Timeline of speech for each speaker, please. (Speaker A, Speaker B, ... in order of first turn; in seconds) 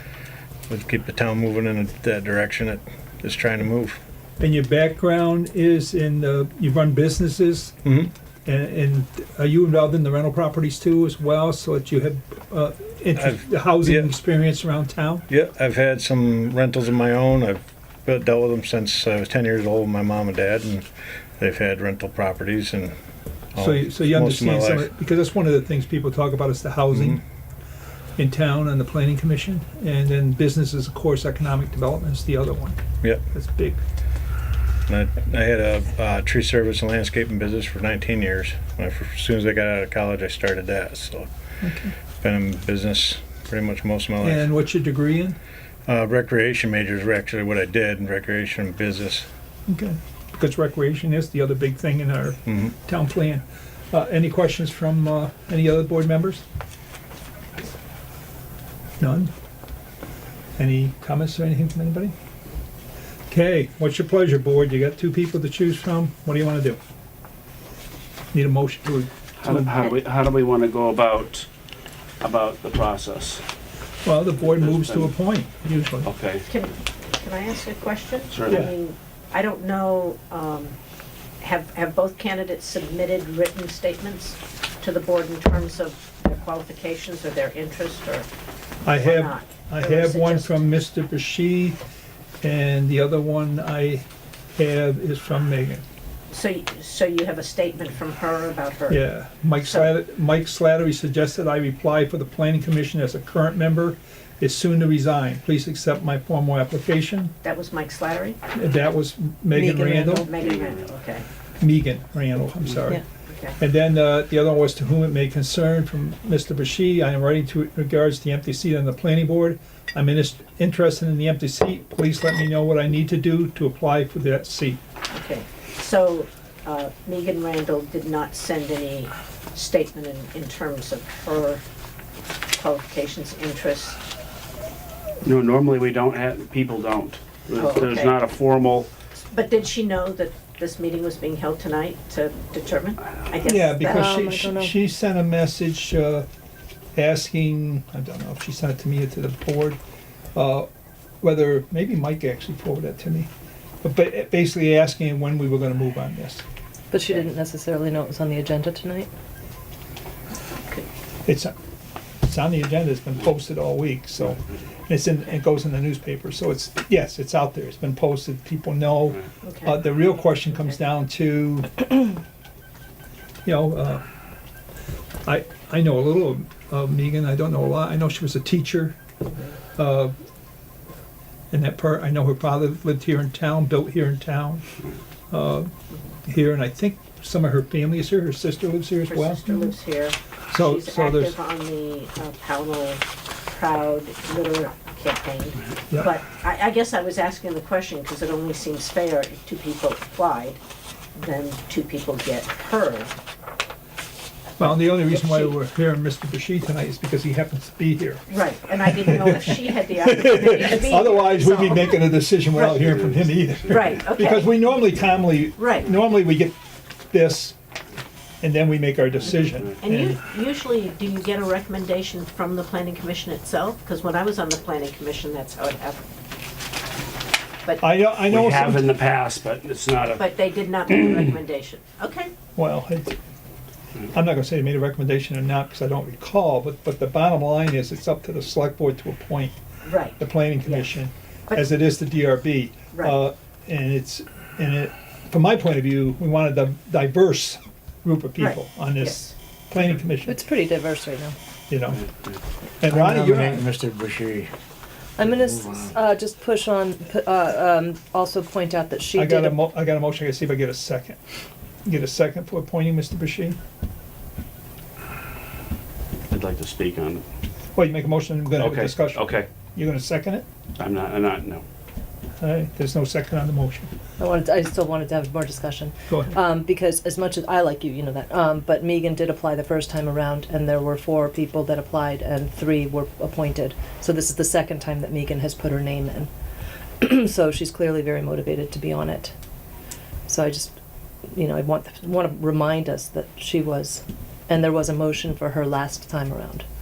Speaker A: 0.7-4.0, 7.8-8.1, 13.2-14.1, 15.3-20.9, 21.4-22.9, 23.5-24.9, 26.9-27.2, 34.9-41.3, 42.2-44.5, 45.9-49.3
Speaker B: 4.4-7.8, 8.5-15.3, 23.6-27.2, 28.2-32.8, 33.3-33.8, 41.6-42.0, 44.2-45.4, 49.7-56.4, 59.0-59.3, 60.6-62.1, 63.3-66.8, 68.3-69.8, 74.0-76.1, 88.8-91.8, 92.4-94.0, 94.6-95.8, 98.9-107.3, 108.5-110.3, 111.6-113.0, 113.6-124.8, 143.4-146.3, 146.9-149.8, 150.3-150.7, 151.2-153.3, 153.8-156.4, 161.2-161.5, 162.2-171.9, 173.4-174.0, 175.2-179.0, 179.8-180.1, 181.5-184.6, 185.3-185.7, 186.2-189.7, 190.5-191.4, 204.6-208.3, 208.9-216.6, 217.1-217.6, 218.4-220.2, 227.8-228.9, 232.6-233.2, 234.1-239.6, 240.2-250.4, 251.7-252.0, 252.8-253.7, 259.2-261.2, 261.9-263.6, 267.8-270.4, 272.4-273.9
Speaker C: 69.4-71.5, 72.2-73.4, 74.4-75.1, 76.0-76.5, 78.3-78.7, 135.2-138.9, 213.0-213.8, 228.3-230.2, 230.9-231.2, 266.3-267.2, 268.6-269.5, 270.8-271.6
Speaker D: 76.5-80.8, 81.4-88.3, 89.0-90.6, 96.3-99.0, 99.6-99.9, 107.4-108.4, 110.2-111.3, 113.3-113.6, 125.1-131.6, 132.6-134.0, 137.6-138.2, 139.3-143.8, 169.4-169.8, 189.1-200.6, 201.2-203.2, 204.6-205.5, 208.3-212.9, 213.7-214.6, 215.6-215.9, 219.8-226.1, 230.2-232.3, 239.8-240.9, 242.9-243.2, 248.4-249.3
Speaker E: 109.5-110.4, 143.8-144.8, 156.9-159.1, 250.2-251.3, 253.3-253.6, 255.2-259.6, 274.2-286.3, 287.0-289.3, 290.3-290.8, 291.3-296.6
Speaker F: 253.0-254.5, 255.3-255.9